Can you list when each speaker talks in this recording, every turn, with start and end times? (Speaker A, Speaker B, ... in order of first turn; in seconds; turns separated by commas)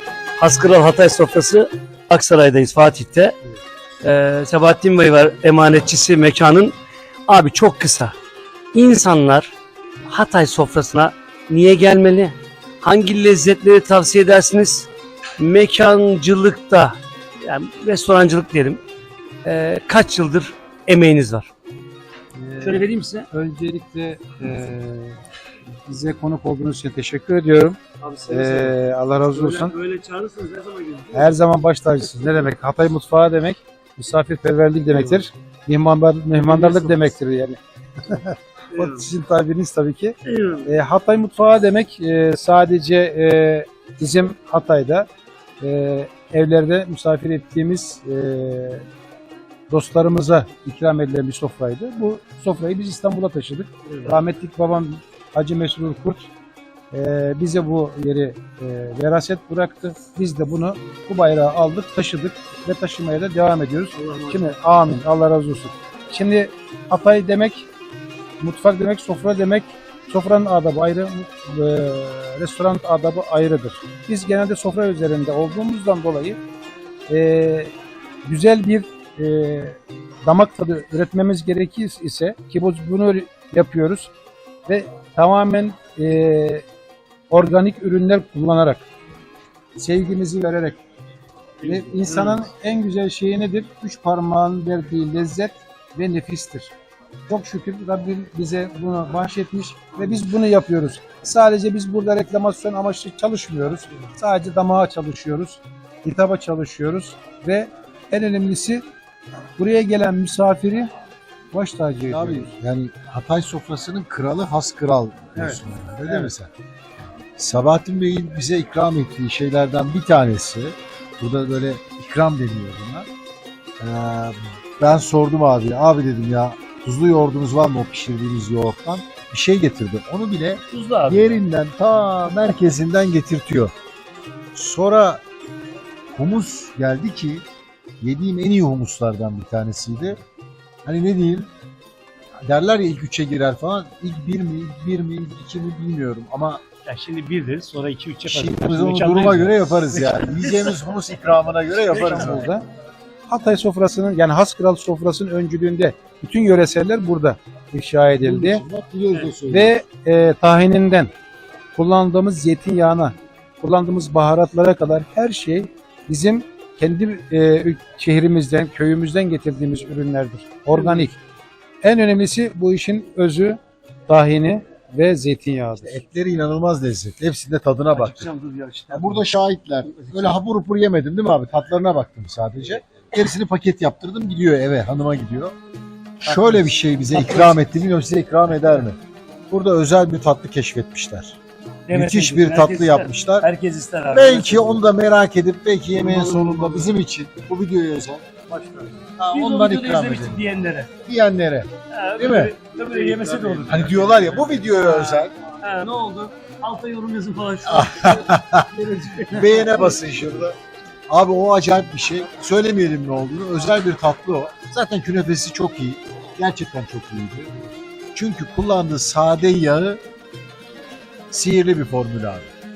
Speaker A: 0.4-3.4, Speaker A: 4.0-6.7, Speaker A: 7.3-8.1, Speaker A: 8.7-9.5, Speaker A: 10.1-18.8, Speaker A: 19.4-21.5, Speaker B: 22.3-25.2, Speaker A: 22.6-23.3, Speaker B: 25.9-29.7, Speaker A: 28.0-31.4, Speaker B: 31.1-40.1, Speaker A: 34.9-35.2, Speaker A: 36.3-37.1, Speaker A: 38.7-39.0, Speaker A: 40.2-40.7, Speaker B: 40.6-45.1, Speaker B: 45.6-48.8, Speaker B: 49.7-56.3, Speaker A: 53.9-54.1, Speaker B: 56.9-67.7, Speaker A: 63.9-64.5, Speaker B: 68.4-76.4, Speaker B: 77.1-77.7, Speaker B: 78.2-84.1, Speaker B: 84.7-86.6, Speaker B: 87.3-88.9, Speaker B: 89.8-90.8, Speaker A: 91.6-92.4, Speaker B: 91.6-96.7, Speaker B: 97.3-108.8, Speaker B: 109.6-110.9, Speaker B: 111.5-112.5, Speaker C: 112.1-116.5, Speaker C: 117.4-123.1, Speaker C: 123.8-133.7, Speaker A: 130.7-131.4, Speaker C: 134.5-135.2, Speaker C: 136.1-137.4, Speaker C: 138.0-140.2, Speaker C: 140.8-141.5, Speaker C: 142.4-146.6, Speaker A: 146.8-150.8, Speaker C: 148.2-152.5, Speaker A: 151.9-152.3, Speaker B: 151.9-152.6, Speaker B: 153.3-158.6, Speaker C: 158.2-159.7, Speaker B: 159.5-161.1, Speaker B: 161.8-171.2, Speaker A: 170.7-171.1, Speaker B: 171.8-176.0, Speaker C: 175.8-178.3, Speaker A: 177.9-179.3, Speaker C: 178.9-185.5, Speaker A: 179.8-180.4, Speaker C: 186.2-189.0, Speaker A: 186.2-187.7, Speaker C: 189.5-191.4, Speaker A: 191.9-194.8, Speaker C: 191.9-193.5, Speaker C: 194.1-198.4, Speaker A: 195.9-196.9, Speaker A: 198.5-200.9, Speaker C: 199.2-202.5, Speaker A: 201.9-208.3, Speaker C: 203.6-205.3, Speaker C: 207.6-210.5, Speaker A: 208.9-210.4, Speaker C: 211.1-217.5, Speaker C: 218.1-220.0, Speaker C: 221.3-222.5